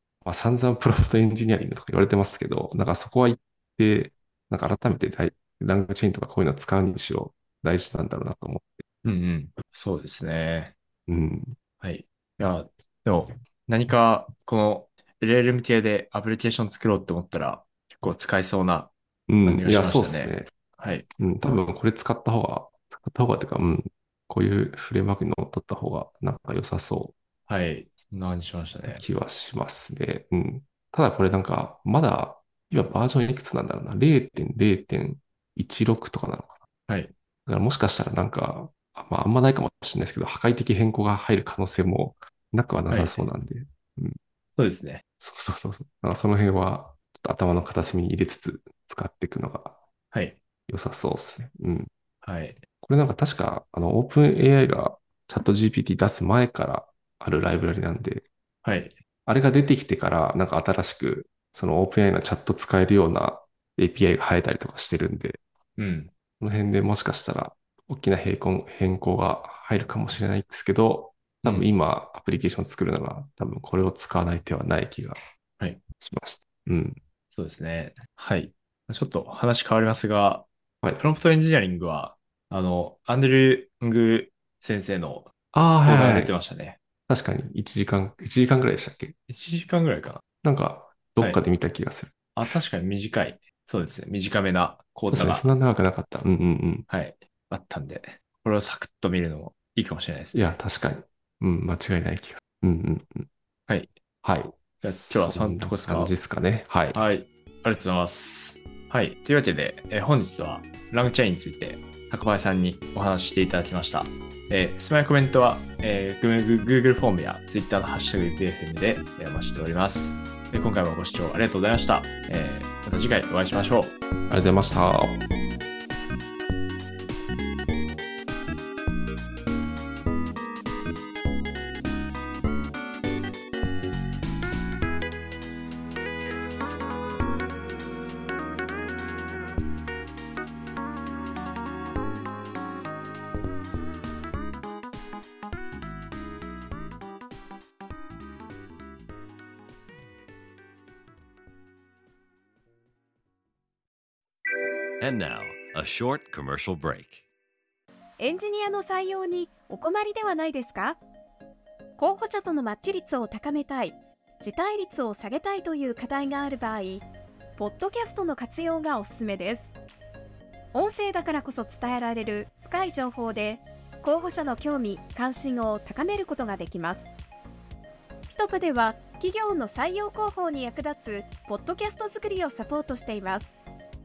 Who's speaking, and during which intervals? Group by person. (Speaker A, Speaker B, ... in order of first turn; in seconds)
Speaker A: 0.2-8.8, 11.1-11.6, 19.3-20.5, 21.2-27.1, 28.9-36.6, 37.5-44.2, 45.2-49.8, 50.7-51.9, 52.8-58.3, 59.3-65.4, 66.4-75.2, 76.0-77.0, 85.5-86.3, 87.1-89.2, 90.4-92.1, 95.1-96.9, 100.3-103.3, 104.2-107.0, 124.3-125.2
Speaker B: 9.0-10.8, 11.8-18.9, 19.4-21.1, 27.5-29.0, 36.9-37.1, 42.9-43.3, 44.6-45.0, 50.1-50.4, 52.2-52.6, 58.6-59.0, 65.8-66.1, 71.4-71.7, 77.3-85.3, 85.8-86.8, 89.3-90.2, 92.3-95.5, 96.9-100.6, 103.7-103.9, 104.8-106.1, 106.9-124.0
Speaker C: 155.0-157.2
Speaker D: 158.2-161.0, 162.0-167.1, 167.6-169.7, 170.7-177.1, 178.3-183.6